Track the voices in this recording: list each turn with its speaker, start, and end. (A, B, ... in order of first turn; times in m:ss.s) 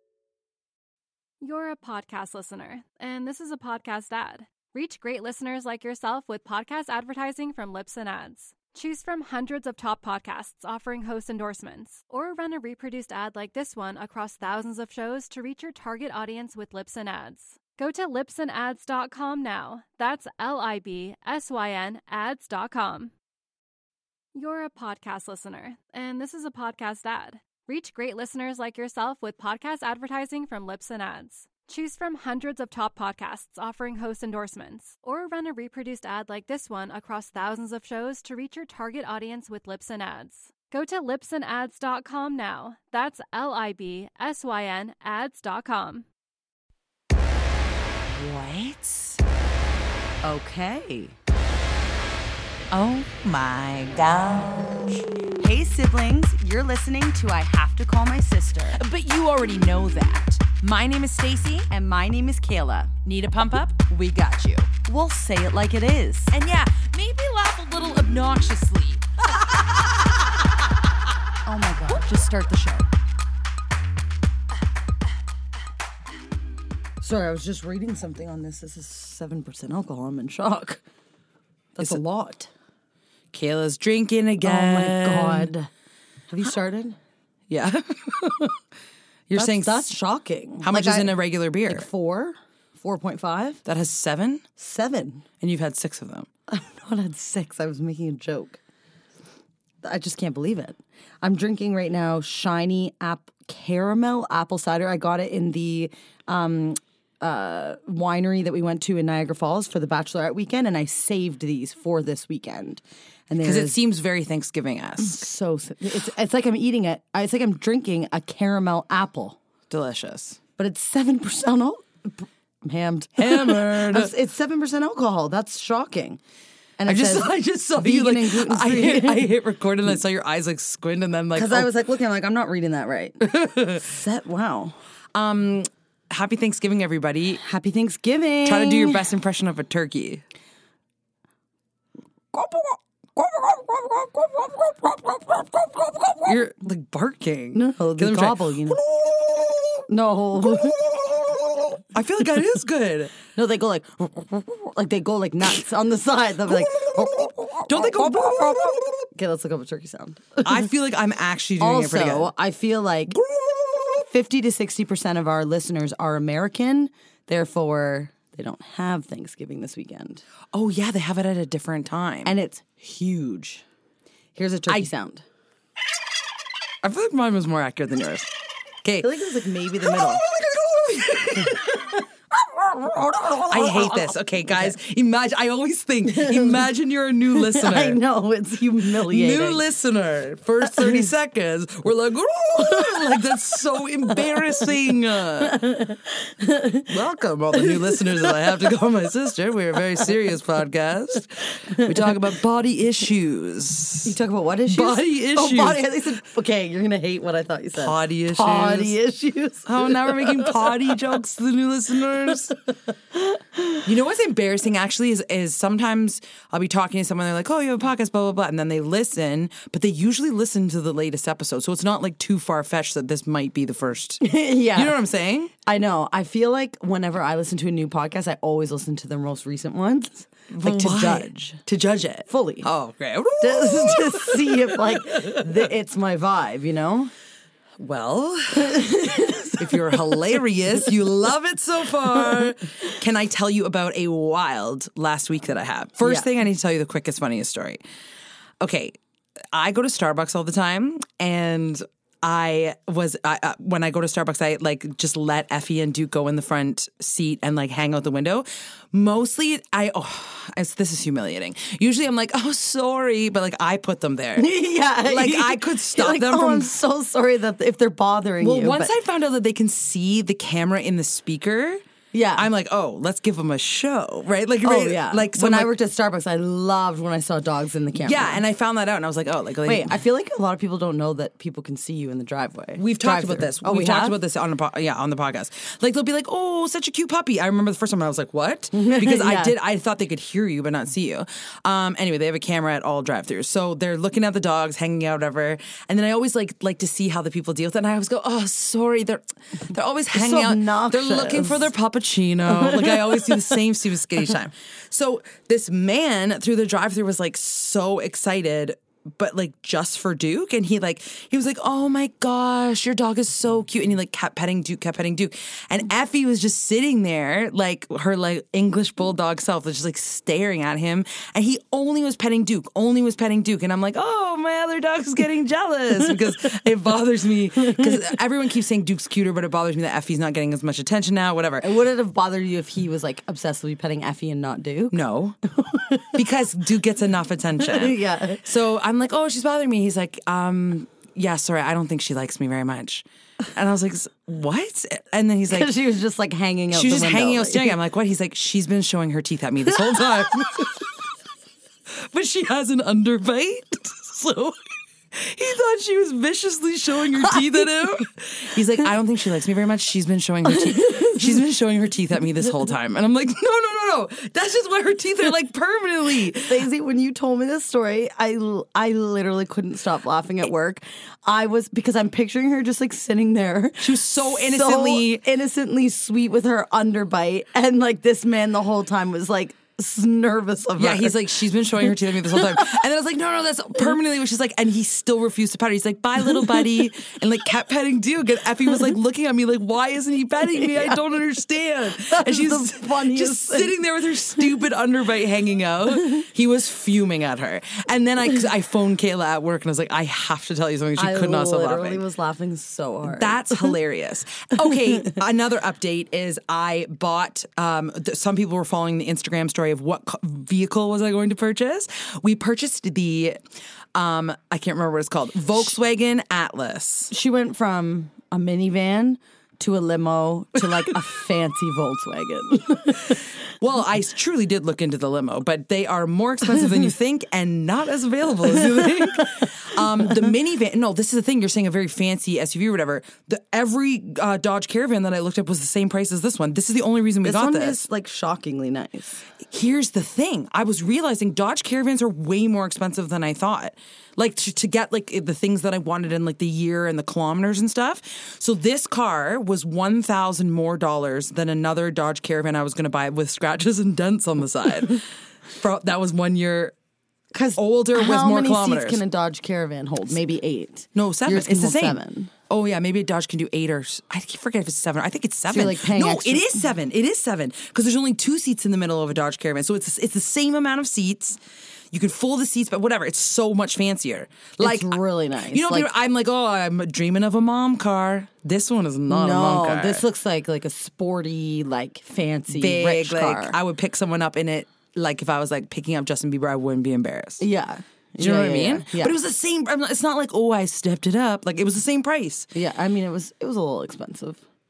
0:01.4-0:23.1 A
0:24.4-0:46.1 A
0:48.1-0:49.2 B
0:50.2-0:51.1 C
0:52.7-0:55.1 B
0:55.4-0:58.8 C
0:58.7-1:01.7 B
1:01.7-1:02.9 C
1:03.0-1:04.7 B
1:04.9-1:06.3 C
1:06.3-1:09.0 B
1:11.4-1:12.2 C
1:12.0-1:12.8 B
1:17.0-1:20.8 C
1:21.8-1:22.5 C
1:23.3-1:25.5 B
1:24.4-1:25.7 C
1:26.3-1:27.0 C
1:27.5-1:28.6 B
1:29.3-1:29.9 B
1:29.4-1:33.6 C
1:30.6-1:31.9 B
1:33.7-1:34.4 B
1:34.6-1:35.2 C
1:35.4-1:36.3 B
1:36.5-1:38.6 C
1:39.8-1:53.8 C
1:53.4-1:55.3 B
1:55.0-1:59.4 C
1:59.7-2:00.4 B
2:00.6-2:06.2 C
2:03.2-2:04.1 B
2:06.8-2:09.3 C
2:06.9-2:11.7 B
2:11.4-2:14.8 C
2:13.2-2:13.8 B
2:15.1-2:17.4 B
2:17.4-2:19.0 C
2:18.4-2:20.2 B
2:22.3-2:26.3 C
2:26.2-2:29.1 B
2:27.5-2:28.8 C
2:29.9-2:30.8 C
2:31.9-2:33.1 B
2:33.3-2:40.6 C
2:37.7-2:38.8 B
2:40.4-2:42.3 B
2:41.6-2:43.2 C
2:44.0-2:50.2 C
2:50.5-2:52.3 B
2:52.2-2:53.6 C
2:54.4-2:55.2 C
2:56.8-2:58.3 B
2:58.8-2:59.1 B
2:59.0-3:00.2 C
2:59.8-3:01.8 B
3:01.4-3:01.7 C
3:02.5-3:04.7 C
3:03.5-3:08.0 B
3:06.1-3:06.6 C
3:07.4-3:09.6 C
3:09.0-3:15.6 B
3:15.4-3:16.9 C
3:16.9-3:24.1 B
3:17.6-3:18.3 C
3:24.0-3:30.7 C
3:24.7-3:25.8 B
3:27.8-3:29.0 B
3:29.7-3:32.6 B
3:33.8-3:45.5 B
3:44.2-3:45.0 C
3:45.6-3:51.6 C
3:50.5-3:55.4 B
3:52.3-3:52.7 C
3:53.4-3:57.1 C
3:57.8-4:07.8 B
3:58.6-3:59.9 C
4:06.0-4:06.3 C
4:08.6-4:09.0 B
4:09.5-4:24.5 B
4:24.4-4:28.9 C
4:25.0-4:26.7 B
4:28.4-4:31.8 B
4:32.1-4:32.5 C
4:32.4-4:35.7 B
4:34.6-4:38.4 C
4:38.0-4:40.0 B
4:39.6-4:44.2 C
4:42.8-5:31.7 B
4:48.7-4:49.6 C
5:00.1-5:01.7 C
5:02.5-5:03.4 C
5:31.6-5:35.0 C
5:34.9-5:35.4 B
5:35.5-5:36.2 C
5:36.1-5:45.7 B
5:37.6-5:38.4 C
5:45.5-5:47.8 C
5:46.7-5:50.9 B
5:51.9-5:54.6 B
5:55.1-6:06.6 B
6:06.5-6:21.2 C
6:13.8-6:15.2 B
6:20.8-6:42.0 B
6:30.5-6:31.0 C
6:32.0-6:33.8 C
6:41.0-6:43.7 C
6:43.1-6:53.4 B
6:53.9-6:57.1 B
6:57.1-7:03.2 C
7:03.6-7:17.9 B
7:17.2-7:19.2 C
7:19.5-7:36.8 B
7:37.3-7:42.3 C
7:37.6-7:39.0 B
7:41.0-7:51.4 B
7:45.5-7:46.6 C
7:51.9-7:55.0 B
7:54.6-7:55.9 C
7:55.5-8:00.0 B
7:59.1-8:03.6 C
8:02.5-8:07.4 B
8:07.4-8:09.2 C
8:08.2-8:12.5 B
8:12.5-8:14.4 C